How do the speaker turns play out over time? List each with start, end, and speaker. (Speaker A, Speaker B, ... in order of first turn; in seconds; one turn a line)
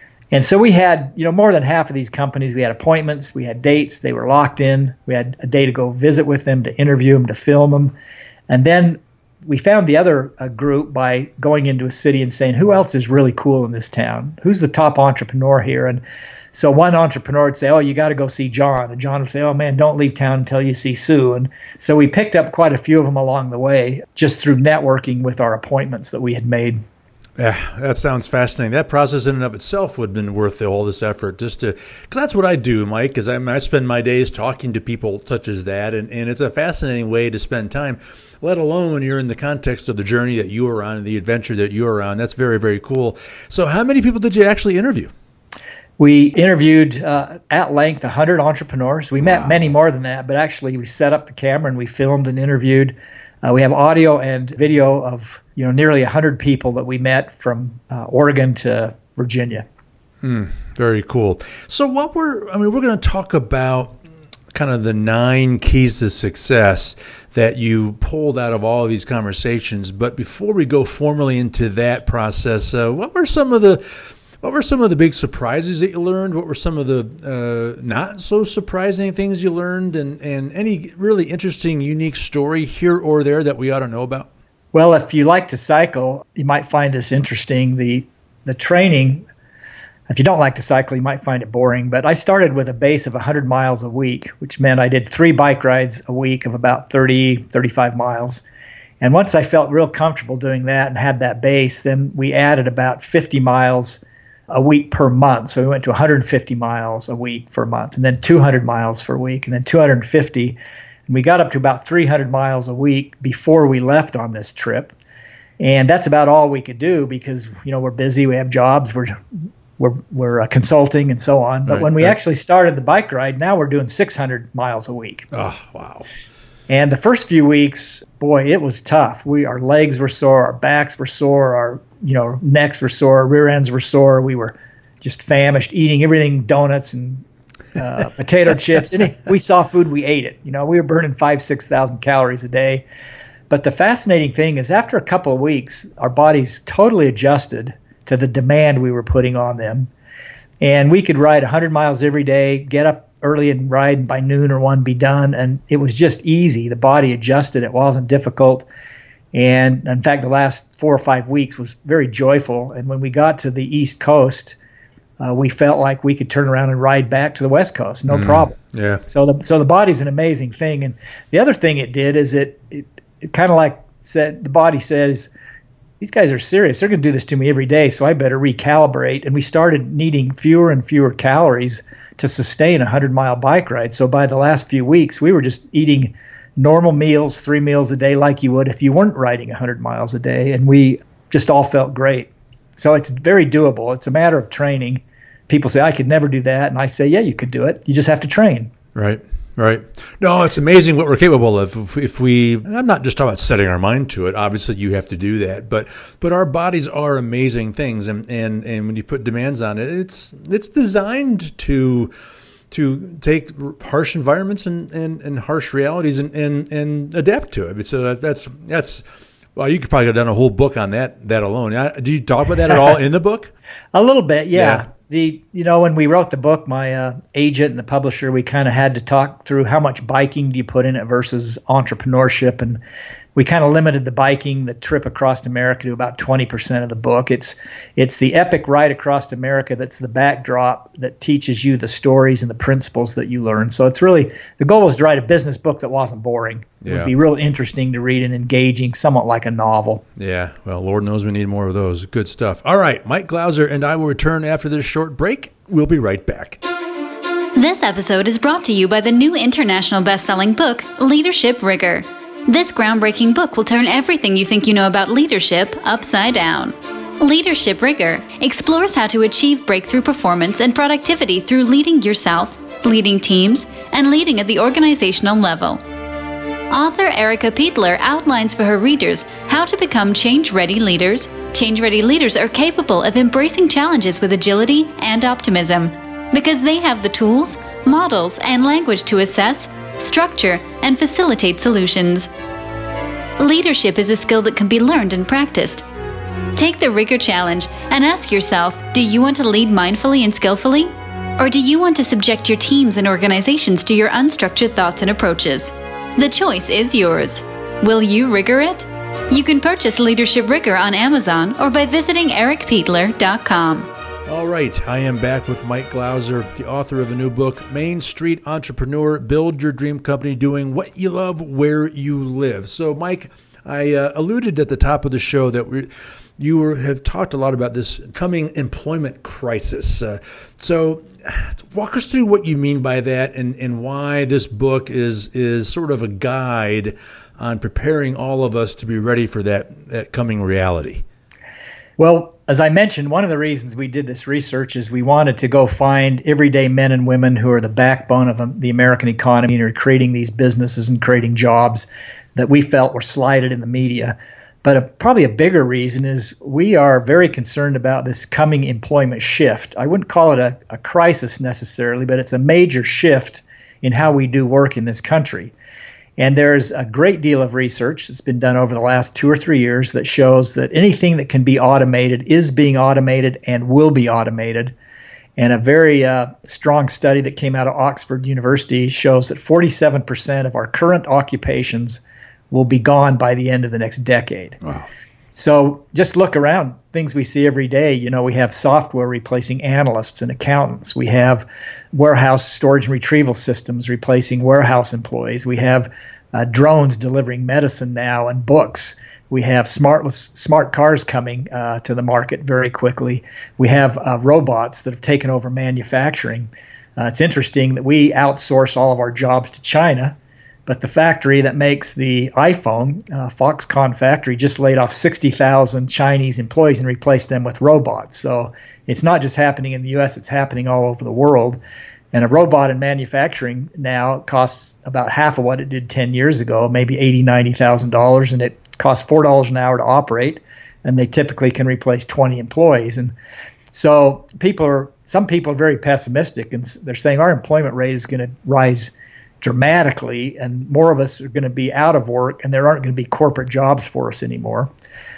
Speaker A: 0.3-7.9
Speaker A: 8.5-16.0
Speaker A: 16.5-26.8
Speaker B: 27.4-45.1
Speaker A: 46.0-59.6
Speaker B: 49.3-49.5
Speaker B: 60.2-64.0
Speaker B: 64.5-84.3
Speaker A: 84.7-89.2
Speaker A: 90.1-98.4
Speaker A: 99.0-110.6
Speaker A: 111.1-114.9
Speaker A: 115.6-119.2
Speaker A: 119.8-125.3
Speaker B: 121.7-122.1
Speaker B: 125.3-126.0
Speaker A: 126.7-137.2
Speaker A: 137.8-142.8
Speaker A: 143.5-149.9
Speaker A: 150.6-158.7
Speaker A: 159.3-164.6
Speaker A: 165.2-175.3
Speaker B: 168.1-169.0
Speaker A: 176.0-198.7
Speaker B: 198.9-212.1
Speaker B: 212.7-219.0
Speaker B: 219.5-223.5
Speaker A: 223.9-232.8
Speaker B: 224.5-224.8
Speaker A: 233.3-250.0
Speaker B: 246.8-247.1
Speaker B: 250.2-256.6
Speaker C: 257.6-275.8
Speaker C: 276.7-292.3
Speaker C: 293.4-295.8
Speaker C: 296.6-313.9
Speaker B: 314.3-341.0
Speaker A: 342.0-365.5
Speaker A: 366.2-374.7
Speaker A: 375.4-384.6
Speaker B: 384.6-384.9
Speaker A: 385.4-410.1
Speaker A: 410.7-421.6
Speaker A: 422.1-433.1
Speaker A: 433.7-444.7